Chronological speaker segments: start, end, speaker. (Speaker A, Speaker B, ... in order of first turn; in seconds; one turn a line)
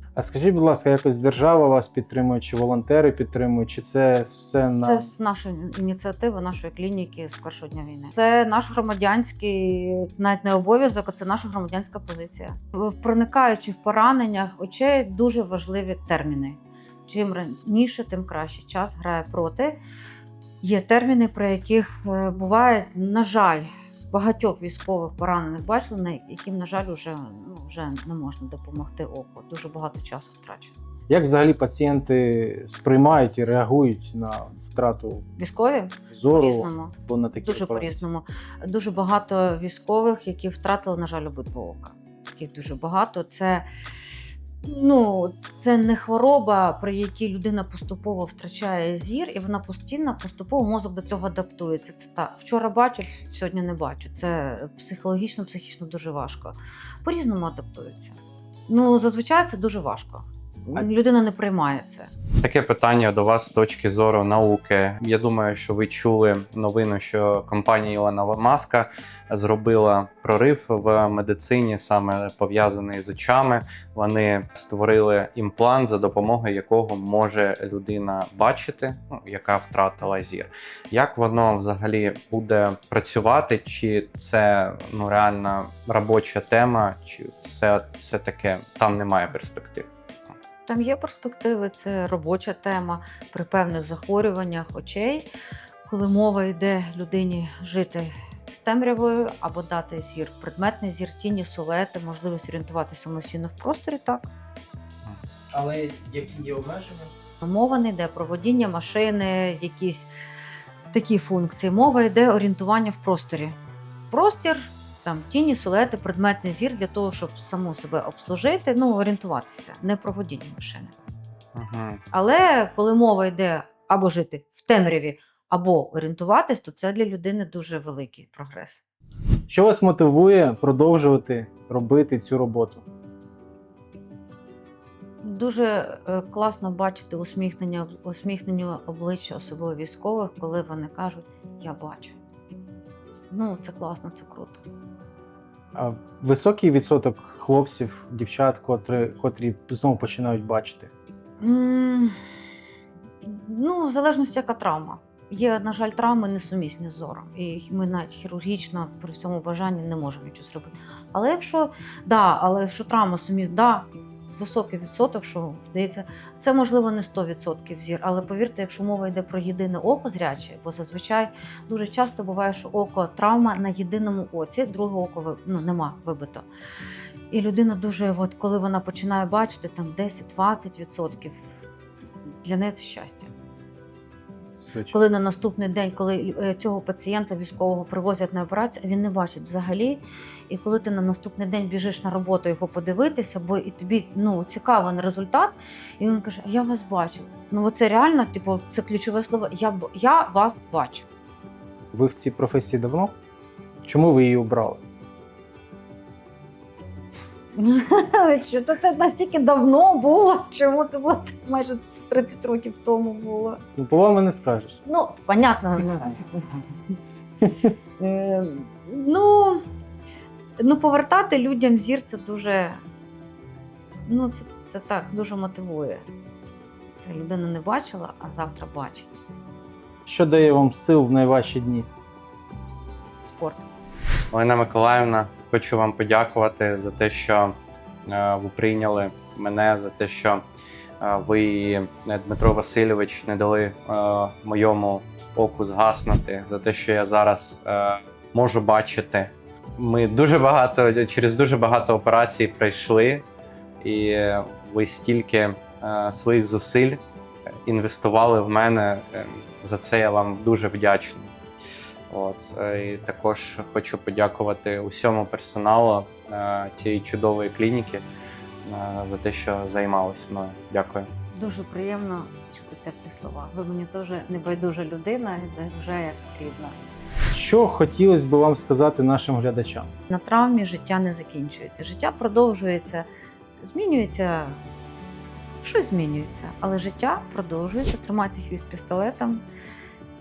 Speaker A: 0.2-5.1
Speaker B: 4.8-19.8
Speaker B: 20.6-30.8
Speaker A: 31.1-35.3
Speaker B: 35.4-43.7
Speaker A: 36.1-38.0
Speaker B: 44.6-58.2
Speaker B: 58.7-62.1
Speaker C: 62.4-89.9
Speaker B: 90.7-95.3
Speaker B: 95.9-104.3
Speaker A: 105.5-107.1
Speaker B: 107.4-110.1
Speaker B: 110.9-113.6
Speaker B: 114.1-120.9
Speaker C: 121.5-122.0
Speaker B: 122.1-128.8
Speaker A: 129.5-132.8
Speaker B: 135.2-142.2
Speaker B: 143.3-144.7
Speaker A: 145.8-150.9
Speaker B: 151.4-152.1
Speaker B: 153.2-176.5
Speaker B: 177.3-181.6
Speaker B: 182.4-183.3
Speaker A: 184.6-185.0
Speaker B: 184.9-201.1
Speaker A: 201.9-203.1
Speaker A: 203.8-204.8
Speaker B: 207.6-213.6
Speaker A: 213.8-214.8
Speaker B: 214.9-216.6
Speaker B: 218.0-219.6
Speaker B: 220.6-222.8
Speaker B: 224.1-226.1
Speaker B: 227.0-229.2
Speaker A: 230.1-231.9
Speaker B: 233.2-233.7
Speaker C: 234.3-237.6
Speaker C: 238.1-240.4
Speaker C: 241.0-253.2
Speaker C: 253.8-257.0
Speaker C: 257.7-261.3
Speaker C: 262.1-268.1
Speaker C: 268.6-271.1
Speaker B: 271.4-276.8
Speaker A: 277.3-279.9
Speaker B: 280.1-283.1
Speaker B: 283.6-284.6
Speaker B: 285.6-289.4